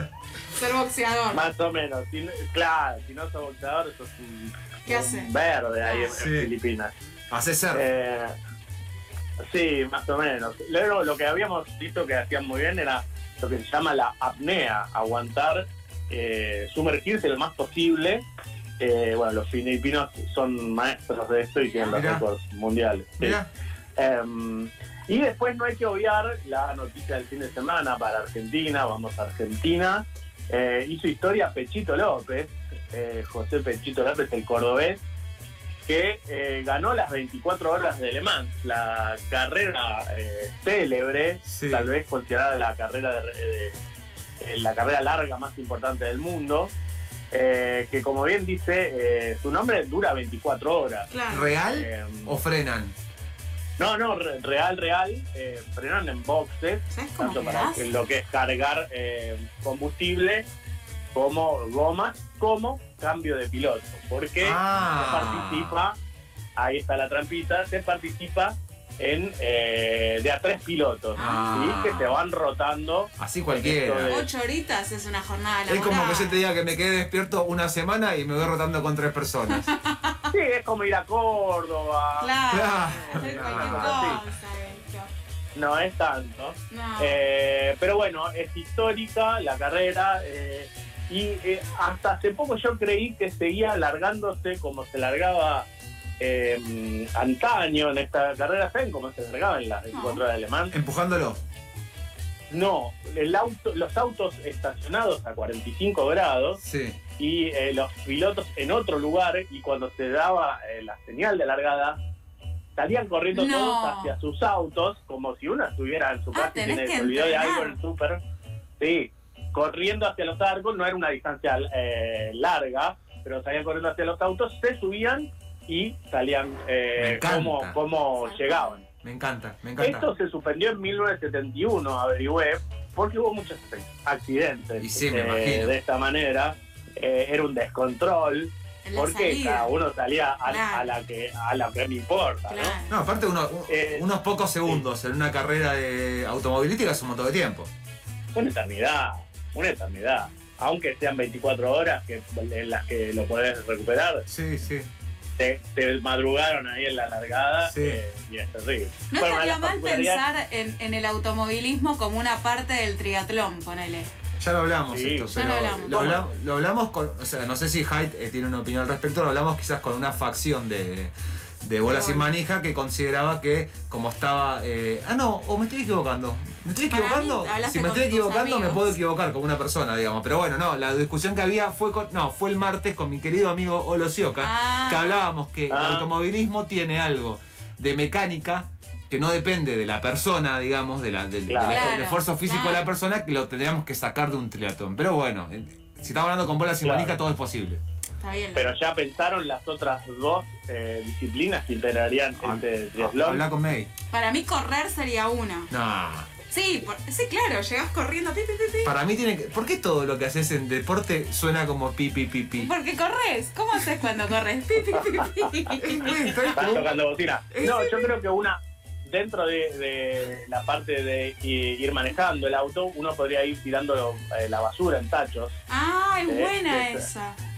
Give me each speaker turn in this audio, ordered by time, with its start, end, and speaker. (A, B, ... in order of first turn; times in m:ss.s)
0:00.5-0:01.5 A
0:01.3-0:06.9 B
0:04.9-0:05.3 A
0:05.8-0:06.2 A
0:06.2-0:06.5 C
0:07.3-0:07.8 C
0:07.7-0:08.3 B
0:09.5-0:18.2 B
0:18.8-0:23.4 B
0:21.9-0:22.2 C
0:23.2-0:23.5 C
0:24.0-0:35.0 B
0:35.9-0:43.7 B
0:41.4-0:41.9 C
0:44.4-0:46.7 B
0:47.3-0:51.1 B
0:51.1-0:51.5 A
0:51.3-0:53.0 C
0:51.6-0:52.4 B
0:53.8-1:00.5 B
0:56.9-0:57.9 A
1:01.1-1:06.0 B
1:04.4-1:05.8 C
1:06.6-1:14.3 B
1:11.2-1:11.8 A
1:11.2-1:12.2 C
1:13.2-1:14.2 C
1:14.1-1:16.4 A
1:15.7-1:19.7 C
1:19.5-1:20.3 A
1:20.3-1:24.2 B
1:22.2-1:25.1 A
1:22.5-1:24.2 C
1:25.6-1:35.7 B
1:26.7-1:27.2 A
1:36.2-1:40.7 B
1:39.9-1:40.2 A
1:40.7-1:41.4 C
1:42.5-1:46.6 B
1:46.6-1:47.0 C
1:47.2-1:52.0 B
1:52.8-1:58.2 B
1:53.3-1:54.2 A
1:56.3-1:57.8 A
1:58.8-2:08.8 B
2:07.0-2:07.8 C
2:08.2-2:08.8 A
2:09.0-2:10.1 C
2:09.8-2:22.8 B
2:14.8-2:15.7 C
2:18.8-2:19.7 A
2:20.4-2:21.0 A
2:22.5-2:23.0 A
2:22.9-2:27.7 C
2:23.7-2:24.1 B
2:28.4-2:34.3 B
2:34.3-2:34.9 C
2:35.4-2:40.2 B
2:37.6-2:38.0 C
2:39.1-2:44.1 A
2:44.4-3:17.8 C
2:44.9-2:45.3 B
2:45.3-2:46.3 A
2:51.9-2:52.3 A
2:56.9-2:59.0 A
3:04.4-3:05.2 A
3:05.7-3:06.1 B
3:11.5-3:12.0 B
3:11.6-3:12.8 A
3:16.8-3:17.2 B
3:18.2-3:18.7 A
3:18.6-3:23.4 B
3:22.4-3:23.9 C
3:24.1-3:25.7 A
3:25.7-3:26.3 C
3:26.5-3:28.9 A
3:28.8-3:32.7 C
3:32.6-3:36.4 A
3:35.1-3:35.4 B
3:35.8-3:36.9 C
3:36.5-3:45.6 B
3:37.5-3:38.1 A
3:45.7-3:47.4 A
3:46.3-3:47.1 B